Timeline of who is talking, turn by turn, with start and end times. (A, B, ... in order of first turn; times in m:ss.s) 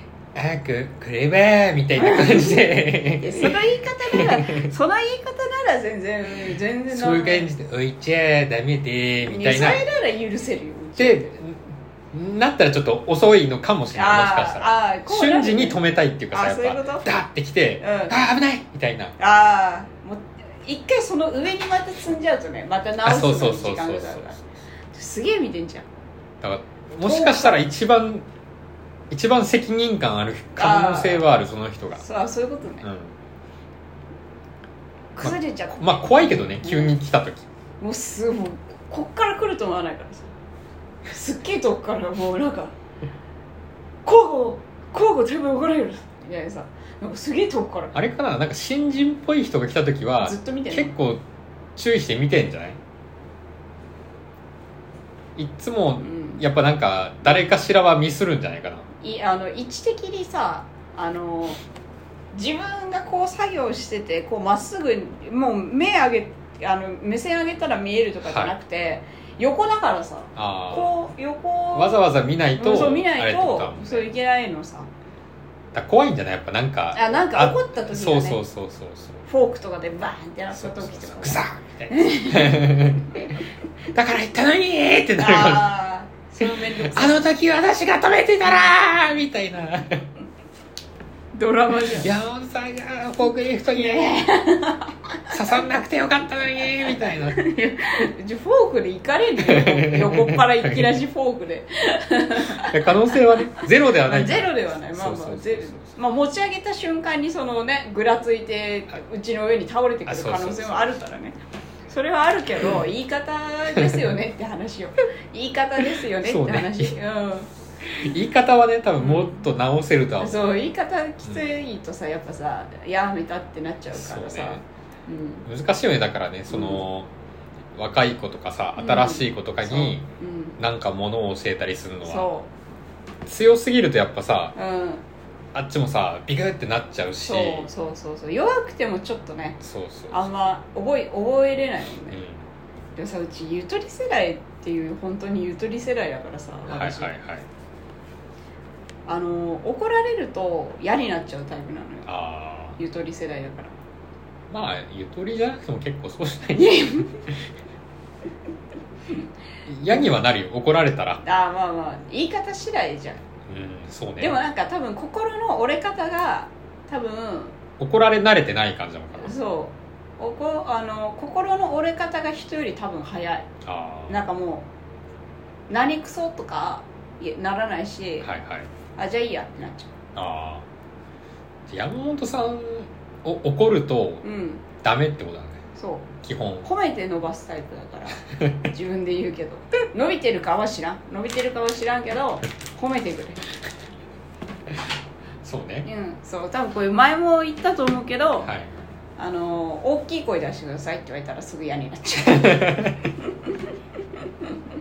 0:00.3-0:04.7 A
0:02.0-0:07.5 B
0:06.9-0:09.8 A
0:09.3-0:11.4 B
0:11.0-0:19.2 A
0:13.9-0:15.8 B
0:16.3-0:17.2 B
0:17.8-0:18.2 B
0:19.2-0:25.8 B
0:23.0-0:24.4 A
0:26.4-0:28.3 A
0:27.0-0:27.7 B
0:29.1-0:32.0 A
0:30.6-0:31.3 B
0:32.0-0:32.9 B
0:32.8-0:33.1 A
0:35.2-0:37.0 B
0:35.2-0:37.5 A
0:37.8-0:40.3 B
0:41.1-0:42.7 B
0:44.0-0:47.9 B
0:47.9-0:51.2 A
0:50.2-0:50.9 B
0:51.8-0:52.8 A
0:55.4-0:58.8 A
0:56.0-0:56.4 B
0:59.0-1:01.6 B
1:02.3-1:12.0 B
1:08.2-1:08.5 A
1:10.4-1:10.9 A
1:11.7-1:14.1 A
1:12.6-1:14.9 B
1:15.7-1:19.2 A
1:16.9-1:18.4 B
1:19.2-1:23.3 B
1:20.5-1:23.4 A
1:23.9-1:25.7 A
1:25.2-1:27.3 B
1:26.4-1:30.0 A
1:31.3-1:32.1 B
1:32.0-1:34.2 A
1:33.7-1:35.4 B
1:35.3-1:37.4 A
1:37.2-1:51.4 B
1:39.4-1:40.9 A
1:42.5-1:45.9 A
1:50.0-1:51.0 A
1:51.9-1:57.5 B
1:55.8-1:56.9 A
1:57.8-2:00.5 A
1:59.0-1:59.5 B
2:00.2-2:05.5 B
2:03.9-2:04.6 A
2:05.5-2:07.1 A
2:06.5-2:06.8 B
2:07.7-2:10.1 A
2:08.8-2:10.6 B
2:10.6-2:12.3 A
2:12.0-2:12.5 B
2:13.2-2:14.5 A
2:14.5-2:15.0 B
2:15.5-2:17.7 A
2:17.2-2:19.6 B
2:19.6-2:20.3 A
2:20.1-2:22.2 B
2:22.1-2:22.5 A
2:22.9-2:27.1 B
2:26.6-2:27.5 A
2:29.0-2:32.1 B
2:32.1-2:32.8 A
2:32.8-2:33.7 B
2:34.5-2:37.1 A
2:36.5-2:37.3 B
2:39.6-2:41.2 A
2:41.2-2:43.2 B
2:43.5-2:44.4 A
2:44.2-2:47.5 B
2:47.8-2:49.4 A
2:49.2-2:53.5 B
2:53.6-2:54.2 A
2:54.1-2:54.7 B
2:55.7-2:58.3 B
2:58.2-2:58.7 A
2:59.0-2:59.9 B
3:00.2-3:00.6 A
3:01.7-3:04.2 A
3:04.2-3:04.6 B
3:04.8-3:05.6 A
3:05.8-3:06.1 B
3:06.2-3:06.7 A
3:06.6-3:13.4 B
3:15.4-3:15.9 A
3:15.8-3:18.5 B
3:18.4-3:18.7 A
3:19.2-3:23.7 B
3:22.3-3:23.0 A